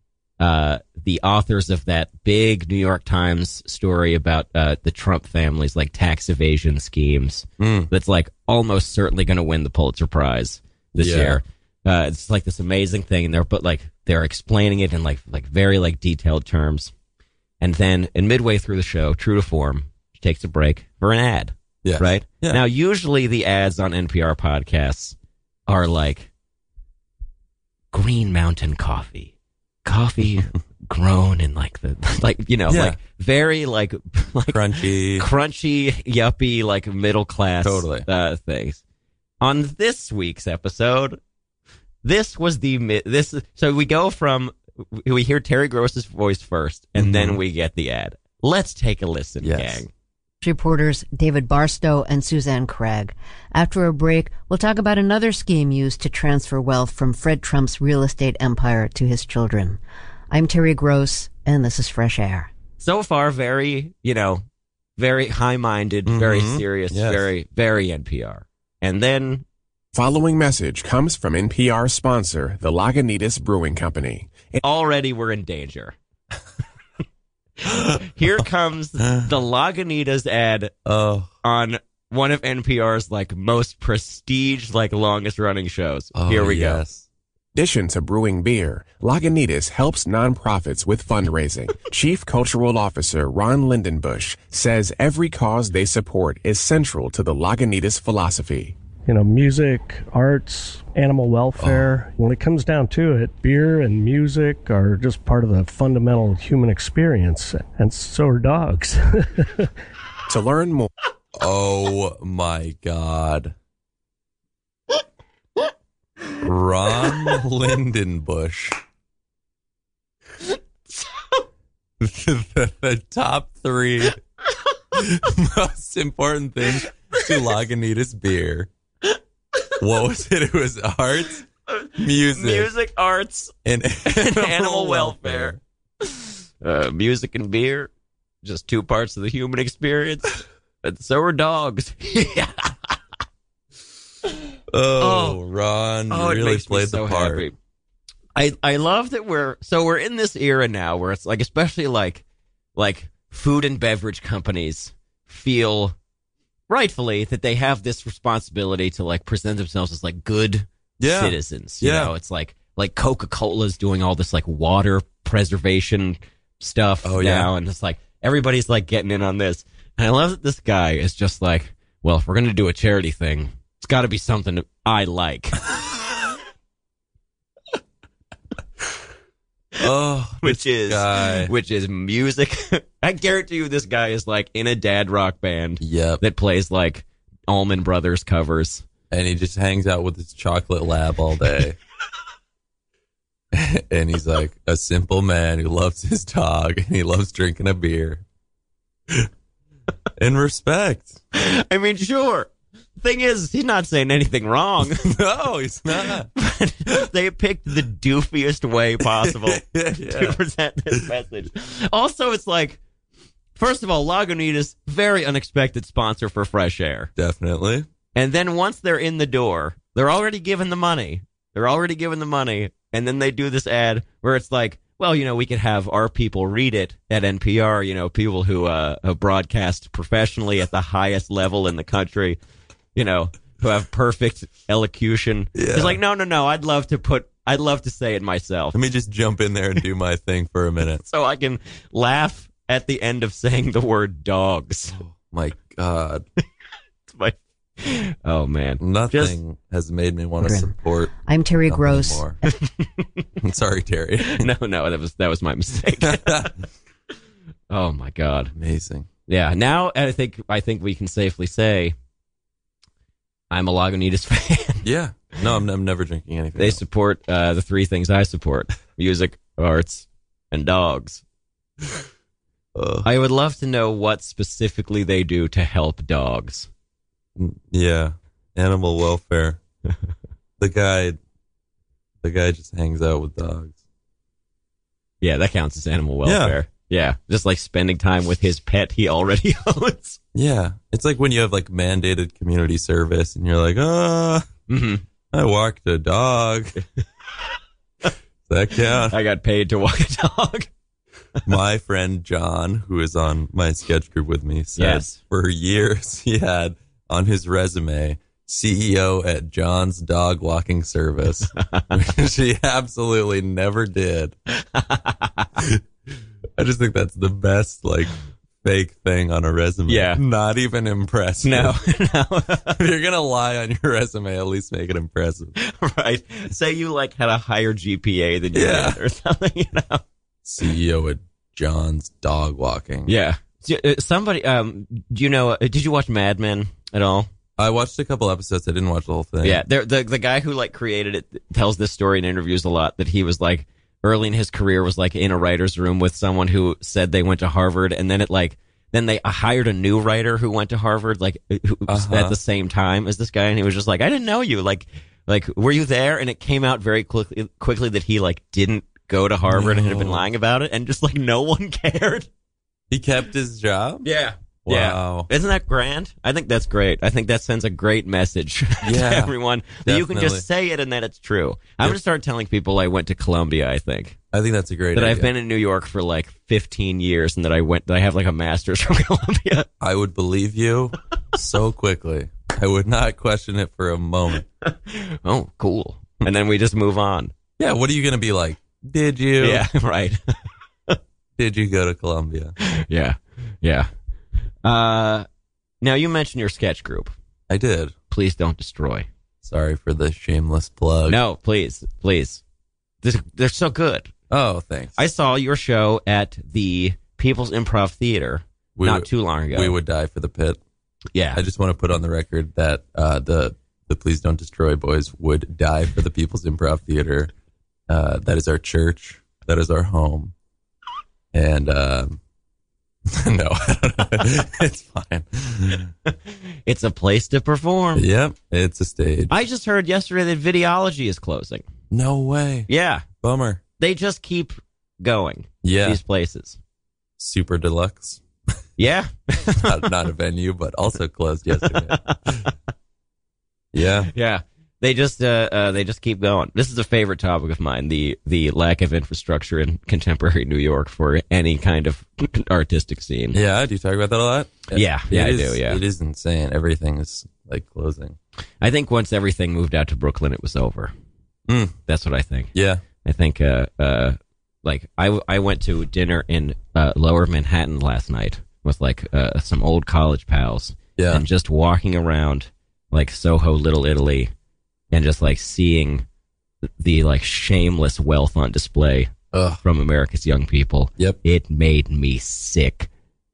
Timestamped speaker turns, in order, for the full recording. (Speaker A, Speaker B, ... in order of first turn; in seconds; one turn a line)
Speaker A: 0.4-16.9
Speaker B: 7.6-7.9
Speaker B: 10.9-11.4
Speaker A: 17.6-25.1
Speaker B: 21.8-22.6
Speaker A: 25.7-26.3
Speaker A: 27.9-29.3
Speaker A: 29.8-38.8
Speaker B: 32.7-33.0
Speaker B: 34.5-35.3
Speaker B: 37.6-38.1
Speaker A: 39.4-41.2
Speaker A: 42.0-49.9
Speaker B: 47.0-47.4
Speaker B: 49.4-49.8
Speaker C: 50.4-62.5
Speaker A: 62.8-64.4
Speaker A: 65.0-69.4
Speaker B: 66.0-67.3
Speaker D: 69.9-74.6
Speaker A: 74.6-75.9
Speaker A: 77.7-80.7
Speaker B: 79.0-79.3
Speaker B: 80.8-81.3
Speaker A: 81.4-86.8
Speaker B: 86.1-87.1
Speaker D: 87.5-98.8
Speaker E: 99.0-109.7
Speaker B: 101.6-101.9
Speaker D: 110.3-110.9
Speaker B: 111.4-113.5
Speaker B: 116.4-118.8
Speaker B: 122.0-124.2
Speaker B: 124.9-128.7
Speaker B: 129.8-131.4
Speaker A: 131.7-133.5
Speaker B: 131.9-132.7
Speaker B: 133.6-135.6
Speaker A: 134.1-137.9
Speaker A: 138.4-142.9
Speaker B: 144.7-147.5
Speaker A: 145.0-145.4
Speaker A: 146.1-147.5
Speaker A: 148.3-152.2
Speaker A: 152.8-155.9
Speaker A: 156.7-175.6
Speaker B: 161.0-162.1
Speaker B: 167.0-167.5
Speaker B: 179.8-181.5
Speaker A: 180.4-188.8
Speaker B: 185.8-186.2
Speaker B: 189.1-191.8
Speaker B: 193.5-198.2
Speaker B: 200.2-201.2
Speaker A: 201.3-205.2
Speaker B: 204.9-206.3
Speaker A: 206.3-212.8
Speaker B: 209.0-210.4
Speaker A: 213.6-217.1
Speaker B: 217.2-217.9
Speaker A: 218.1-232.4
Speaker A: 232.9-238.8
Speaker B: 235.5-236.0
Speaker B: 238.7-241.0
Speaker A: 241.0-245.0
Speaker B: 244.9-246.2
Speaker A: 247.1-249.4
Speaker B: 248.8-251.1
Speaker C: 250.4-252.3
Speaker B: 251.7-252.4
Speaker A: 252.4-253.1
Speaker B: 253.4-254.5
Speaker A: 254.2-256.5
Speaker B: 256.0-256.6
Speaker A: 257.7-258.5
Speaker B: 258.5-259.1
Speaker A: 259.3-261.9
Speaker A: 263.5-264.9
Speaker B: 264.8-266.8
Speaker A: 266.6-271.2
Speaker B: 272.7-273.1
Speaker A: 273.0-276.7
Speaker B: 277.4-279.6
Speaker B: 280.6-281.2
Speaker B: 282.2-283.8
Speaker A: 285.2-290.2
Speaker B: 286.2-286.6
Speaker B: 290.3-294.5
Speaker A: 294.7-295.0
Speaker B: 295.3-296.8
Speaker B: 298.5-299.1
Speaker A: 299.1-300.7
Speaker B: 301.4-314.3
Speaker A: 304.8-305.2
Speaker A: 311.6-311.9
Speaker A: 314.7-315.5
Speaker B: 316.6-318.1
Speaker B: 318.6-321.7
Speaker A: 319.9-320.2
Speaker A: 321.4-322.8
Speaker B: 322.7-325.5
Speaker A: 325.6-330.0
Speaker B: 328.5-329.0
Speaker B: 330.4-333.1
Speaker A: 333.1-337.3
Speaker B: 337.6-339.6
Speaker A: 339.4-362.3
Speaker B: 351.9-352.4
Speaker B: 359.5-360.2
Speaker B: 362.9-364.1
Speaker A: 364.0-374.2
Speaker B: 364.6-365.3
Speaker B: 368.8-370.4
Speaker B: 374.3-375.3
Speaker A: 374.9-379.7
Speaker B: 379.8-384.4
Speaker A: 384.6-387.3
Speaker B: 387.6-389.6
Speaker A: 389.4-390.2
Speaker B: 391.4-392.5
Speaker A: 392.6-393.9
Speaker A: 394.6-395.3
Speaker A: 395.8-397.1
Speaker B: 397.5-397.9
Speaker A: 398.1-399.1
Speaker B: 399.4-401.2
Speaker A: 401.1-402.4
Speaker A: 403.0-404.1
Speaker B: 404.3-405.0
Speaker A: 405.0-409.8
Speaker B: 408.8-410.6
Speaker A: 411.1-411.4
Speaker B: 411.3-417.3
Speaker B: 417.9-420.3
Speaker B: 421.3-422.2
Speaker B: 423.1-425.9
Speaker A: 426.6-428.1
Speaker B: 427.9-429.3
Speaker A: 429.3-431.6
Speaker B: 431.9-433.6
Speaker A: 432.7-433.1
Speaker A: 433.8-436.6
Speaker B: 435.6-436.0
Speaker B: 437.2-438.2
Speaker A: 438.8-439.9
Speaker B: 439.5-442.0
Speaker A: 441.5-442.4
Speaker B: 443.7-444.1
Speaker A: 444.1-453.4
Speaker B: 453.3-458.2
Speaker A: 454.7-455.8
Speaker A: 458.6-460.9
Speaker B: 461.5-461.8
Speaker A: 461.9-474.3
Speaker B: 462.5-462.8
Speaker B: 471.0-471.2
Speaker A: 474.9-476.0
Speaker A: 476.8-482.9
Speaker B: 479.3-479.6